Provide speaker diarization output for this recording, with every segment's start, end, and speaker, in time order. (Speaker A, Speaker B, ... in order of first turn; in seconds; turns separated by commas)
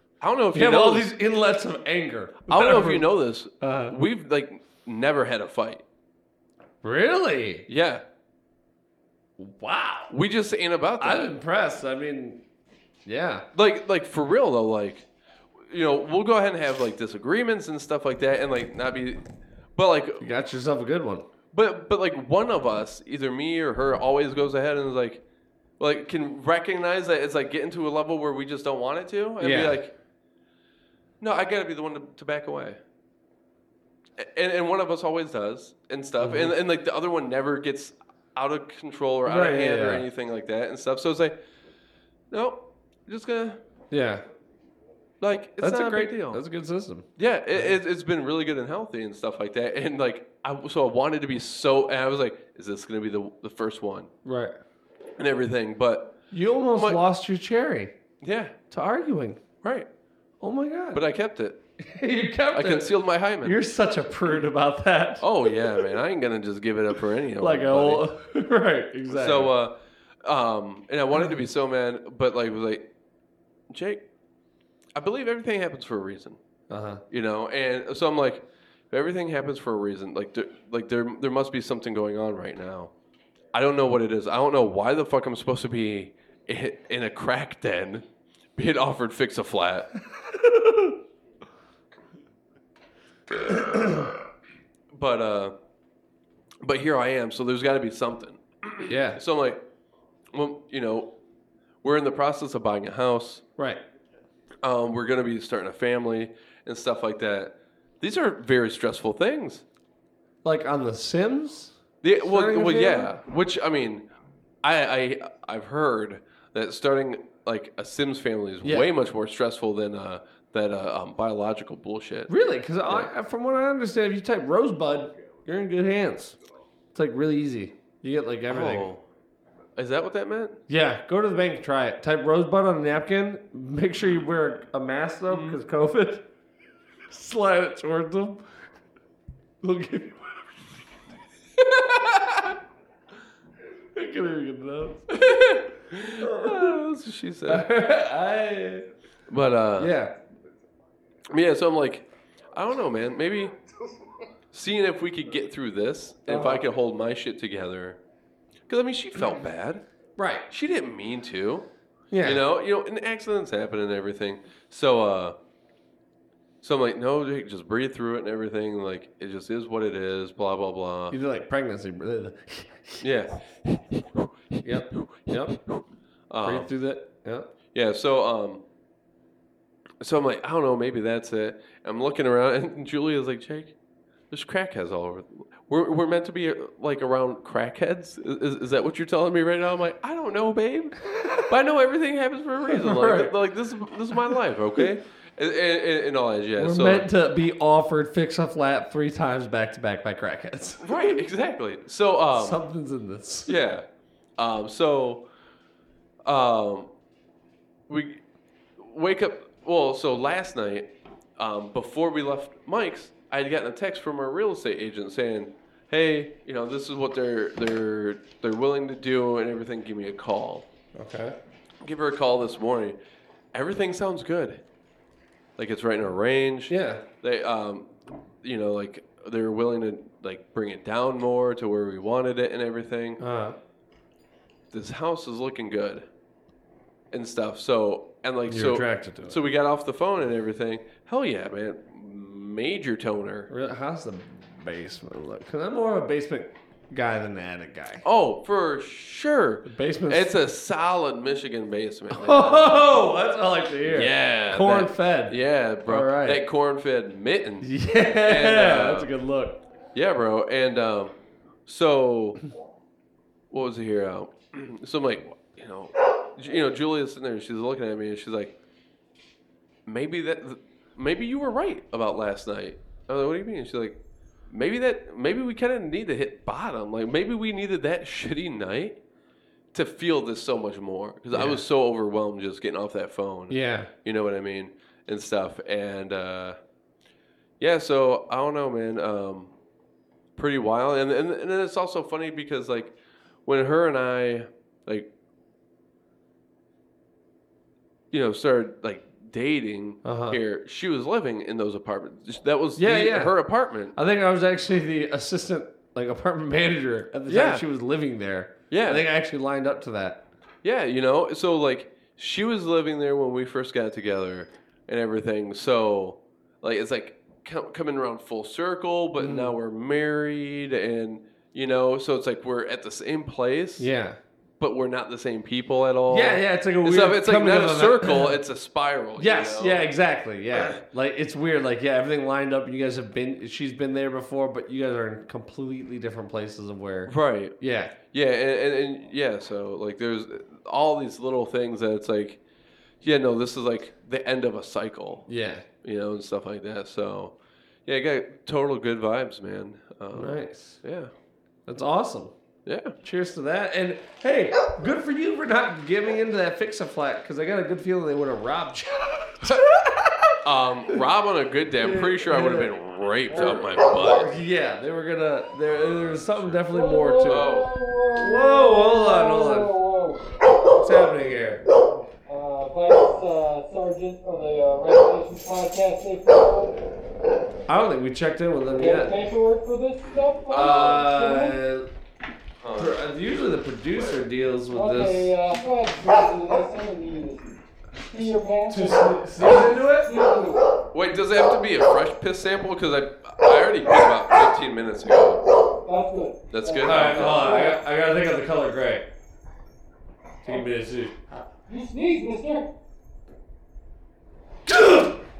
Speaker A: 0.2-1.1, Speaker B: 0.5-3.9, Speaker A: 2.5-5.8, Speaker B: 6.8-7.7, Speaker A: 7.7-8.0, Speaker B: 9.4-10.1, Speaker A: 10.1-11.3, Speaker B: 11.0-12.4, Speaker B: 13.1-13.4, Speaker A: 13.5-15.1, Speaker A: 15.7-20.3, Speaker B: 20.2-21.3, Speaker A: 21.5-25.2, Speaker A: 25.8-29.9, Speaker B: 29.4-29.8, Speaker A: 31.2-32.8, Speaker A: 34.2-41.4, Speaker B: 36.2-36.5, Speaker B: 39.2-40.0, Speaker A: 42.3-43.6, Speaker B: 43.9-44.2, Speaker A: 45.2-46.4, Speaker B: 45.6-47.7, Speaker A: 47.2-54.1, Speaker B: 54.2-54.6, Speaker A: 55.2-56.2, Speaker B: 56.3-57.9, Speaker A: 56.7-57.0, Speaker A: 58.2-58.5, Speaker B: 58.7-59.4, Speaker A: 59.6-59.9, Speaker B: 60.4-61.0, Speaker A: 60.9-61.6, Speaker B: 61.8-65.3, Speaker A: 62.5-63.6, Speaker A: 65.2-68.0, Speaker B: 67.4-69.5, Speaker A: 69.1-72.8, Speaker A: 73.7-74.0, Speaker A: 74.9-76.4, Speaker B: 76.7-77.0, Speaker A: 77.1-82.9, Speaker A: 83.5-88.0, Speaker A: 88.5-89.9, Speaker B: 90.3-90.9, Speaker B: 93.5-94.1, Speaker A: 94.9-95.5, Speaker A: 96.6-99.6, Speaker B: 98.9-99.2, Speaker A: 100.3-101.1, Speaker A: 101.8-103.4, Speaker A: 104.6-109.6, Speaker B: 110.4-113.2, Speaker A: 112.0-114.1, Speaker A: 114.6-122.3, Speaker B: 122.3-126.3, Speaker B: 126.9-128.9, Speaker A: 128.5-129.0, Speaker A: 129.8-130.6, Speaker B: 130.7-136.2, Speaker A: 135.3-135.6, Speaker B: 137.1-138.4, Speaker B: 139.6-140.4, Speaker A: 141.6-142.6, Speaker B: 143.9-145.1, Speaker A: 145.1-147.7, Speaker B: 146.2-146.8, Speaker B: 147.5-148.9, Speaker A: 149.3-149.9, Speaker B: 149.8-150.1, Speaker A: 151.3-153.5, Speaker A: 154.5-158.0, Speaker B: 156.3-156.6, Speaker A: 158.7-159.8, Speaker B: 160.2-160.4, Speaker A: 160.5-161.7, Speaker B: 162.1-162.4, Speaker A: 162.2-165.3, Speaker A: 166.6-171.2, Speaker B: 171.1-173.1, Speaker A: 173.0-173.4, Speaker B: 174.6-175.6, Speaker A: 174.9-176.7, Speaker B: 176.4-177.5, Speaker A: 177.7-178.6, Speaker A: 180.0-183.7, Speaker A: 184.3-197.1, Speaker B: 192.7-193.3, Speaker B: 196.6-201.0, Speaker A: 200.8-202.6, Speaker B: 202.3-203.5, Speaker A: 203.5-203.8, Speaker A: 204.4-205.2, Speaker A: 206.2-206.9, Speaker A: 207.9-208.2, Speaker A: 208.8-220.7, Speaker B: 220.9-221.3, Speaker A: 221.8-223.0, Speaker A: 223.5-224.6, Speaker A: 225.6-227.9, Speaker B: 226.7-227.0, Speaker A: 228.4-233.2, Speaker B: 233.2-233.6, Speaker A: 234.7-236.1, Speaker A: 237.1-243.5, Speaker B: 238.5-239.4, Speaker B: 243.5-248.0, Speaker A: 248.0-252.8, Speaker B: 249.6-250.3, Speaker B: 252.1-256.4, Speaker A: 253.9-257.7, Speaker B: 257.6-259.6, Speaker A: 258.2-259.1, Speaker A: 259.9-261.1, Speaker A: 261.6-262.4, Speaker A: 263.5-268.5, Speaker A: 269.9-274.0, Speaker A: 274.5-279.0, Speaker A: 279.7-286.6, Speaker B: 281.3-281.6, Speaker B: 283.5-283.9, Speaker A: 287.6-289.5, Speaker A: 290.4-292.9, Speaker A: 293.4-295.1, Speaker A: 298.1-303.9, Speaker B: 300.0-300.4, Speaker B: 302.8-303.4, Speaker B: 303.9-310.2, Speaker A: 307.3-307.6, Speaker A: 308.7-309.0, Speaker A: 310.6-323.9, Speaker B: 319.2-319.6, Speaker B: 323.8-324.2, Speaker A: 324.6-329.8, Speaker B: 326.1-328.4, Speaker B: 329.2-337.9, Speaker A: 330.5-330.8, Speaker A: 337.1-337.6, Speaker A: 338.1-342.4, Speaker A: 343.0-345.2, Speaker B: 345.3-345.6, Speaker A: 345.8-347.3, Speaker A: 347.9-351.1, Speaker B: 350.1-350.8, Speaker B: 351.7-352.3, Speaker A: 352.6-352.9, Speaker B: 353.0-360.4, Speaker A: 360.4-364.3, Speaker B: 361.8-362.7, Speaker B: 363.3-367.5, Speaker C: 366.7-370.2, Speaker A: 367.2-367.7, Speaker B: 368.1-369.7, Speaker B: 370.8-371.6, Speaker C: 372.1-376.8, Speaker B: 377.7-379.1, Speaker C: 378.7-381.6, Speaker A: 380.5-381.1, Speaker B: 380.5-381.9, Speaker A: 382.6-383.0, Speaker B: 382.8-385.3, Speaker C: 384.7-387.5, Speaker C: 388.1-390.8, Speaker B: 388.7-390.1, Speaker A: 390.9-395.4, Speaker C: 395.8-397.8, Speaker A: 396.5-397.7, Speaker B: 396.8-399.0, Speaker B: 400.4-401.1, Speaker C: 401.7-402.7, Speaker B: 404.7-405.2